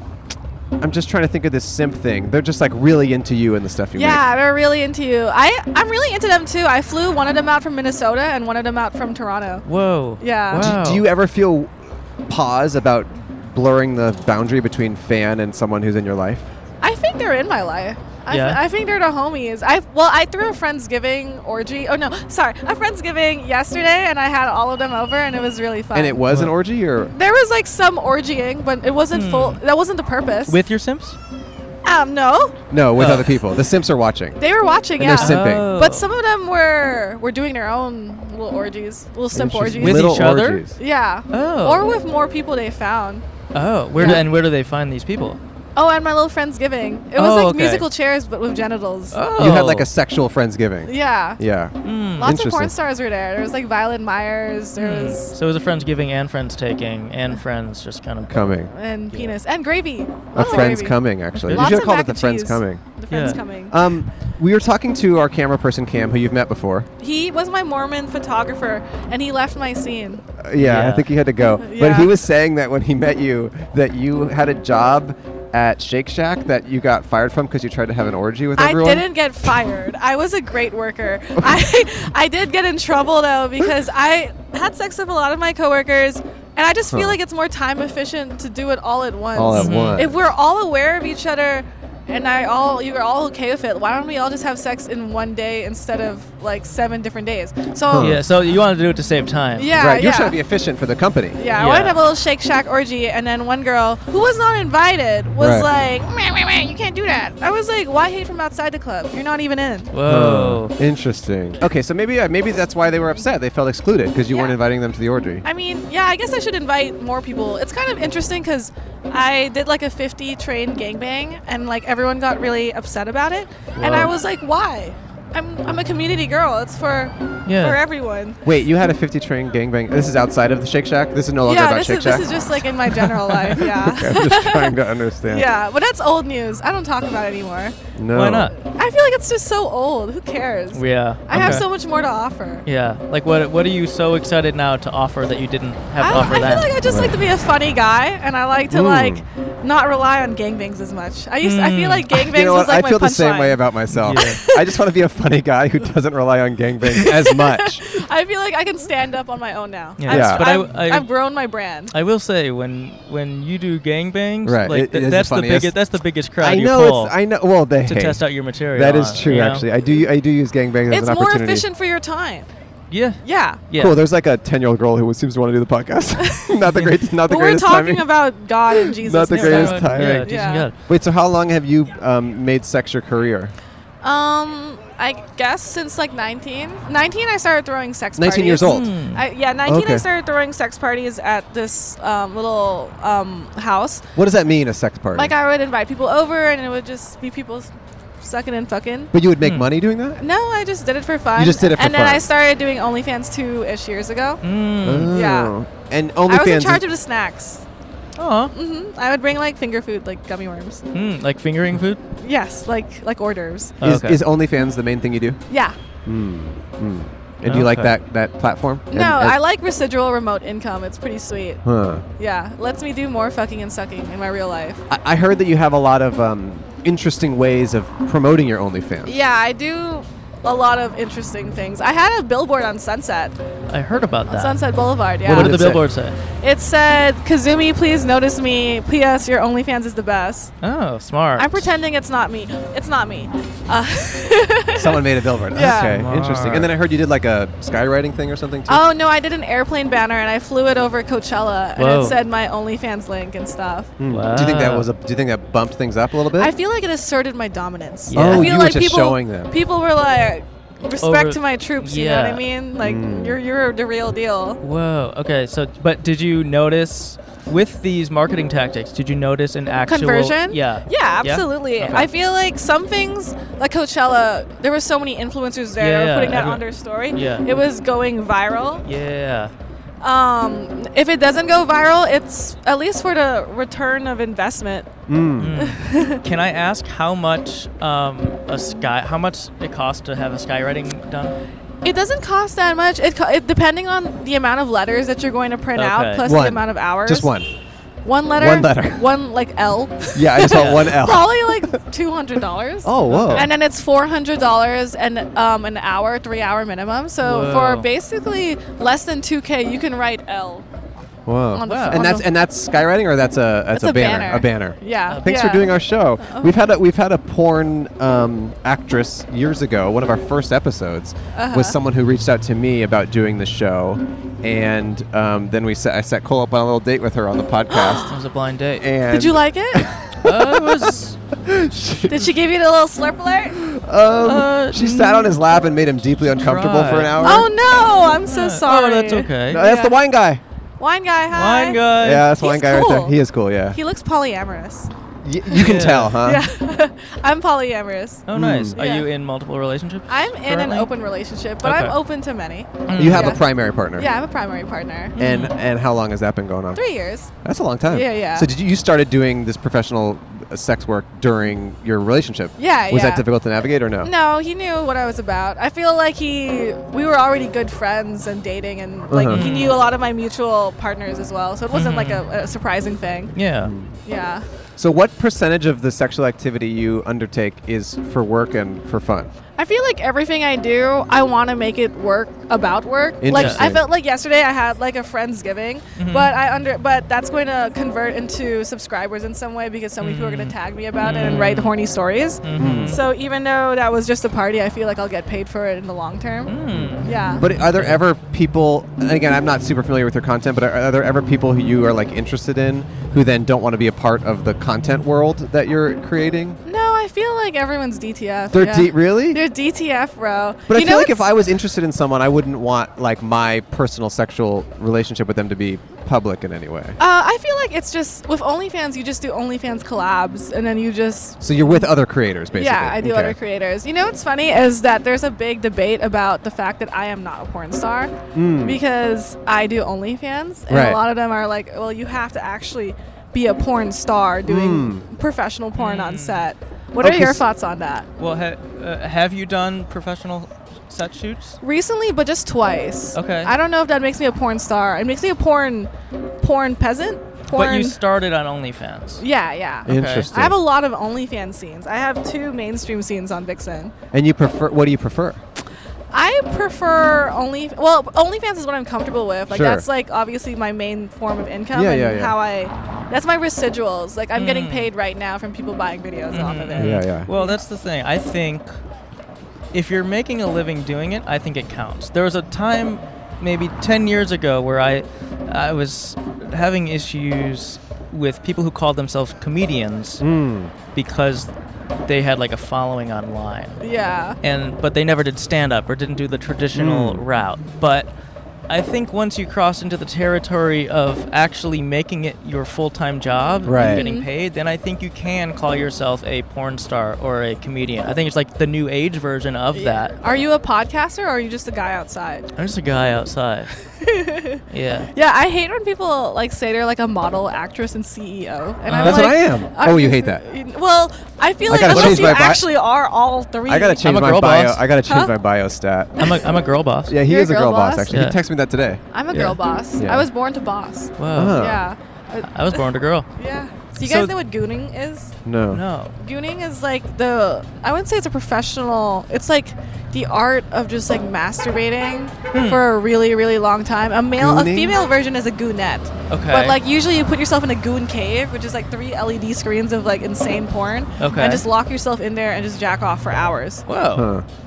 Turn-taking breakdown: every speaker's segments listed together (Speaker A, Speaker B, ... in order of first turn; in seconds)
Speaker A: 0.8-4.2, 10.6-16.5, 25.9-27.1, 32.7-34.4, 35.0-35.7, 39.3-40.8, 49.4-52.7, 58.3-58.7, 60.3-62.8, 63.7-66.9, 70.4-79.1, 81.4-81.7, 86.9-87.2, 89.3-90.1, 97.9-98.2, 99.7-101.4, 105.4-105.7, 110.0-115.5, 123.8-124.1, 128.4-132.6, 133.5-135.5, 138.0-138.5, 141.3-141.6, 146.9-147.2, 148.7-149.2, 152.1-157.9, 160.1-160.4, 164.4-165.8, 166.4-168.2, 168.7-171.7, 173.8-178.1, 178.7-180.3, 180.9-183.5, 188.2-188.9, 189.7-190.1, 194.2-195.3, 199.1-200.2, 201.3-202.3, 204.8-206.8, 213.8-215.4, 216.1-219.4, 221.6-222.1, 224.9-229.2, 235.3-235.8, 244.8-248.9, 254.0-256.5, 258.1-259.5, 262.8-263.4, 285.1-285.6, 296.2-297.5, 298.4-299.1, 300.1-301.8, 302.8-303.5, 311.3-328.1, 328.8-332.2, 333.5-337.5, 339.5-340.4, 341.9-343.8, 345.2-346.5, 348.3-348.8, 352.9-354.1, 355.2-356.8, 357.4-364.1, 369.1-369.5, 373.6-374.0, 374.8-379.3, 383.2-383.8, 392.6-393.0, 396.7-406.6, 408.5-409.4, 410.7-417.0, 421.4-423.4, 428.3-428.8, 430.7-431.0, 434.4-435.1, 437.0-437.4, 449.9-450.6, 454.1-455.4, 459.5-459.9, 461.7-462.4, 466.8-467.3, 480.2-480.7, 486.7-487.2, 493.6-494.0, 509.0-510.4, 511.7-512.6, 513.7-516.3, 517.1-520.3, 521.3-521.8, 525.5-525.8, 534.4-535.0, 544.1-544.5
Speaker B: 4.0-9.6, 10.2-10.7, 16.8-26.2, 27.1-30.6, 31.9-32.6, 34.4-40.3, 40.8-43.2, 45.8-49.2, 50.9-51.4, 52.2-55.3, 58.7-63.8, 67.0-70.2, 71.6-72.1, 78.6-98.2, 99.6-100.4, 101.4-109.9, 114.3-114.6, 115.5-128.4, 131.4-137.8, 138.6-142.7, 146.0-153.6, 154.1-154.6, 157.0-161.9, 170.9-172.5, 173.2-173.6, 177.3-180.7, 184.0-194.1, 195.1-199.1, 200.2-204.4, 205.1-205.5, 206.3-207.7, 208.5-210.8, 212.2-213.8, 215.5-215.8, 218.9-221.6, 222.2-224.8, 229.0-233.4, 234.3-235.6, 236.4-240.5, 241.4-246.0, 248.7-253.9, 256.4-264.6, 269.9-278.8, 280.0-284.9, 285.6-286.2, 291.8-297.3, 298.0-310.7, 311.5-312.3, 313.7-316.5, 321.4-321.8, 327.7-328.1, 329.1-329.9, 332.1-333.6, 337.2-340.0, 340.8-341.9, 342.4-343.2, 343.7-344.9, 346.2-349.1, 350.1-353.4, 354.0-355.2, 356.8-357.3, 357.9-358.5, 362.6-363.3, 364.0-373.3, 374.1-374.4, 379.6-396.5, 397.0-397.4, 406.7-411.2, 417.0-421.9, 422.5-428.1, 428.6-438.1, 441.6-445.9, 446.4-448.0, 449.2-453.9, 456.1-467.6, 483.8-484.4, 493.8-494.3, 499.7-502.5, 503.9-514.1, 515.1-515.3, 517.2-518.2, 519.1-522.8, 523.4-525.3, 526.2-543.8
Speaker C: 9.7-11.1, 18.3-18.6, 29.1-29.6, 30.5-31.2, 33.0-33.4, 35.2-36.1, 39.8-40.6, 41.3-41.9, 43.5-45.4, 47.1-47.9, 49.1-49.9, 51.8-52.3, 54.8-58.5, 60.4-60.8, 61.4-61.7, 63.1-63.4, 70.6-71.1, 89.6-90.1, 98.0-99.7, 101.5-102.0, 109.9-110.7, 127.5-127.8, 133.0-133.6, 138.1-138.5, 140.7-141.7, 142.7-146.8, 151.4-152.1, 153.9-154.4, 160.0-161.1, 161.9-167.1, 167.8-169.7, 172.9-174.0, 179.3-180.8, 188.7-189.2, 199.4-199.7, 204.4-205.1, 208.2-208.5, 210.9-212.0, 213.8-214.2, 217.4-218.0, 233.7-234.6, 235.2-236.2, 240.6-241.7, 245.6-246.7, 251.8-252.2, 254.1-254.9, 258.1-258.6, 261.0-262.4, 264.6-272.1, 275.8-277.7, 278.9-279.5, 285.4-291.4, 295.8-296.2, 300.5-300.9, 303.1-303.5, 307.2-307.9, 311.7-312.1, 315.1-315.7, 328.0-328.9, 330.2-331.2, 334.2-335.4, 336.0-337.5, 338.3-339.6, 341.3-342.3, 345.5-346.2, 348.3-350.9, 351.6-352.0, 352.9-353.4, 355.2-355.6, 369.3-369.8, 371.7-372.2, 373.4-373.7, 383.3-383.6, 386.0-386.3, 390.0-391.7, 392.4-393.0, 396.5-398.0, 435.8-436.5, 438.2-441.6, 443.1-443.5, 447.5-449.2, 449.9-450.3, 464.4-464.9, 466.3-468.7, 469.7-480.2, 480.9-481.5, 482.1-483.8, 484.4-488.1, 488.7-500.1, 502.6-503.7, 504.7-505.1, 508.9-509.3, 511.9-512.4, 514.0-514.8, 516.2-517.2, 518.1-518.4, 521.2-521.6, 522.5-523.3, 524.0-524.3, 525.7-526.1, 532.5-532.8, 536.3-536.8, 541.2-541.6, 543.9-544.3